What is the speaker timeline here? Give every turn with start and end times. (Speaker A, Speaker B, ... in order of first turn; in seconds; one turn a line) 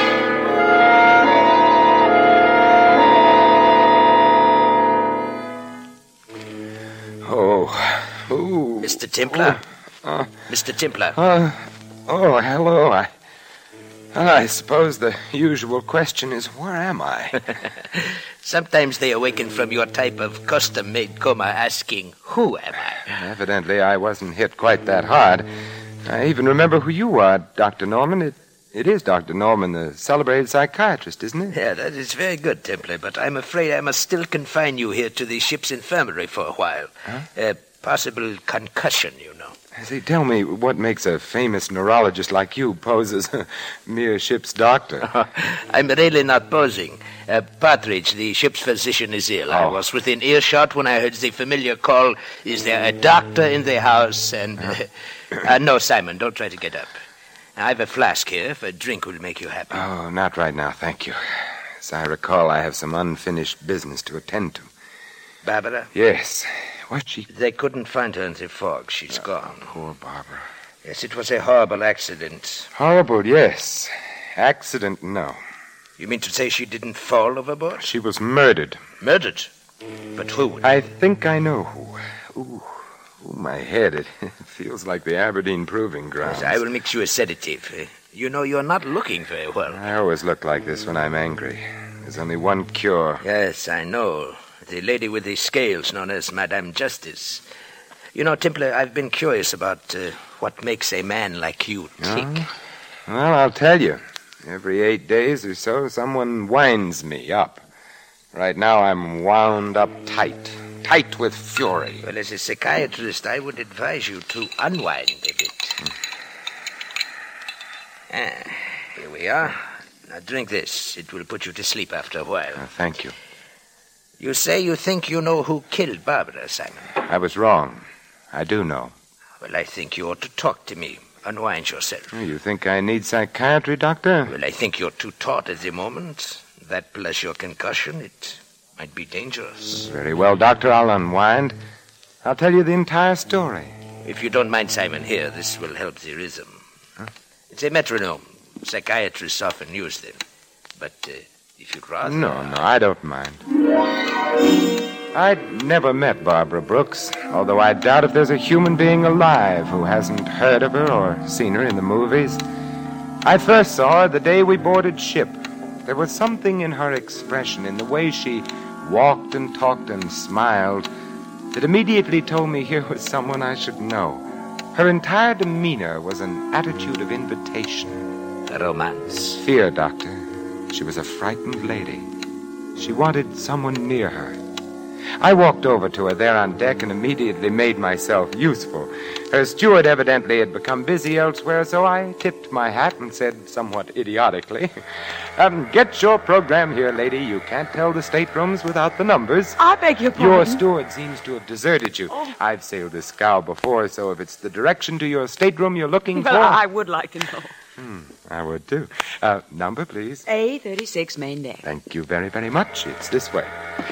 Speaker A: 7.2-10.3
Speaker B: 8.8-9.6
Speaker B: 10.5-11.2
Speaker A: 11.2-13.1
Speaker A: 14.1-17.5
Speaker B: 17.9-23.1
Speaker A: 23.1-25.5
Speaker A: 26.0-31.6
Speaker B: 31.5-39.6
Speaker A: 39.8-45.1
Speaker B: 45.0-56.9
Speaker A: 49.5-49.8
Speaker B: 57.6-59.9
Speaker A: 59.7-64.7
Speaker B: 65.4-65.9
Speaker A: 65.9-67.3
Speaker B: 67.3-69.7
Speaker A: 69.6-70.5
Speaker B: 70.8-72.7
Speaker A: 72.7-75.4
Speaker B: 76.0-77.9
Speaker A: 77.8-78.8
Speaker B: 79.0-79.5
Speaker B: 80.2-80.8
Speaker A: 80.6-86.6
Speaker B: 86.2-89.8
Speaker A: 89.7-93.2
Speaker B: 93.2-97.4
Speaker B: 98.1-102.5
Speaker A: 102.0-102.5
Speaker A: 103.1-107.6
Speaker A: 108.3-112.0
Speaker B: 112.0-115.8
Speaker B: 118.1-122.7
Speaker A: 122.6-123.1
Speaker B: 124.2-126.9
Speaker A: 127.0-128.9
Speaker B: 129.4-132.1
Speaker A: 132.1-134.3
Speaker B: 134.3-139.9
Speaker A: 139.8-141.6
Speaker A: 142.2-143.8
Speaker B: 144.0-146.6
Speaker B: 147.5-150.2
Speaker B: 150.8-152.6
Speaker A: 152.0-153.4
Speaker A: 155.1-162.4
Speaker A: 163.2-170.9
Speaker A: 171.5-178.1
Speaker B: 178.5-179.4
Speaker A: 179.4-182.1
Speaker A: 182.8-184.4
Speaker A: 185.2-194.7
Speaker A: 195.4-199.6
Speaker C: 199.6-200.6
Speaker A: 200.2-206.6
Speaker C: 206.1-207.5
Speaker A: 207.8-210.2
Speaker C: 210.3-211.6
Speaker A: 211.6-213.5